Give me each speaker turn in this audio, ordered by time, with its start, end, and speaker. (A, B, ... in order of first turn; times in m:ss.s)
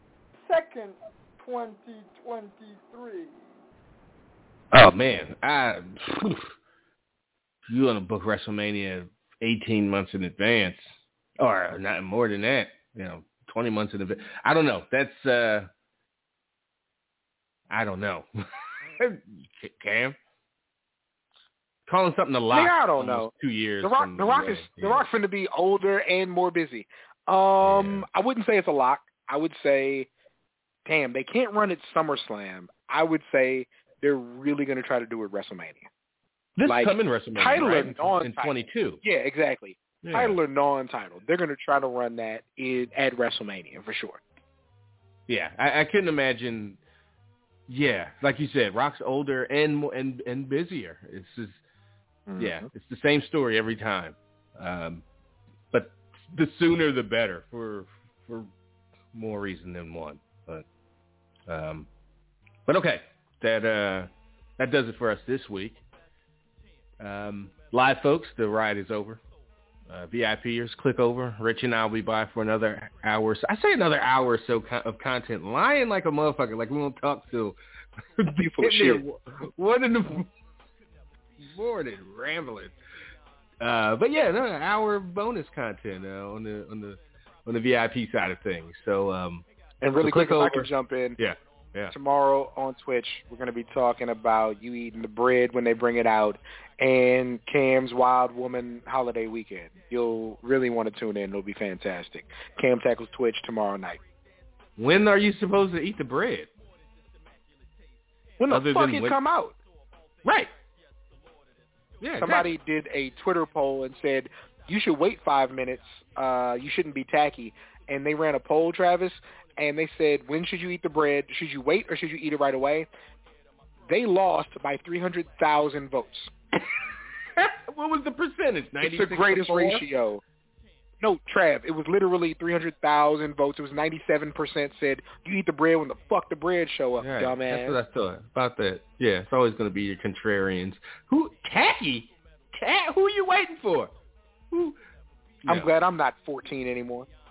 0:00.4-0:03.4 A
0:04.7-0:06.4 B
0:07.7-0:15.7 B
0:17.7-0:18.2 B
0:19.0-0:20.2 B
0:21.9-0:25.1 B
0:22.5-0:30.1 C
0:27.6-0:28.0 B
0:30.8-0:35.9 C
0:36.6-0:39.0 B
0:36.6-0:44.2 C
0:40.0-0:40.4 B
0:45.3-0:46.8 B
0:47.7-0:51.6 B
0:52.3-0:52.7 C
0:52.4-0:55.0 B
0:55.7-0:58.5 B
0:59.1-1:00.6 B
1:01.5-1:01.9 B
1:02.7-1:05.8 B
1:07.0-1:09.2 B
1:09.9-1:17.6 B
1:18.2-1:20.3 B
1:18.4-1:19.0 C
1:21.4-1:22.7 B
1:23.6-1:29.4 B
1:29.8-1:31.2 C
1:30.0-1:31.9 B
1:31.9-1:44.0 C
1:44.8-1:46.5 B
1:48.4-1:49.5 C
1:48.5-1:49.2 B
1:50.2-1:50.5 B
1:52.0-1:52.5 B
1:52.2-2:02.9 C
2:03.8-2:06.3 C
2:07.4-2:09.8 B
2:08.8-2:10.2 C
2:11.0-2:17.8 C
2:17.0-2:23.9 B
2:24.5-2:24.8 B
2:25.4-2:27.1 C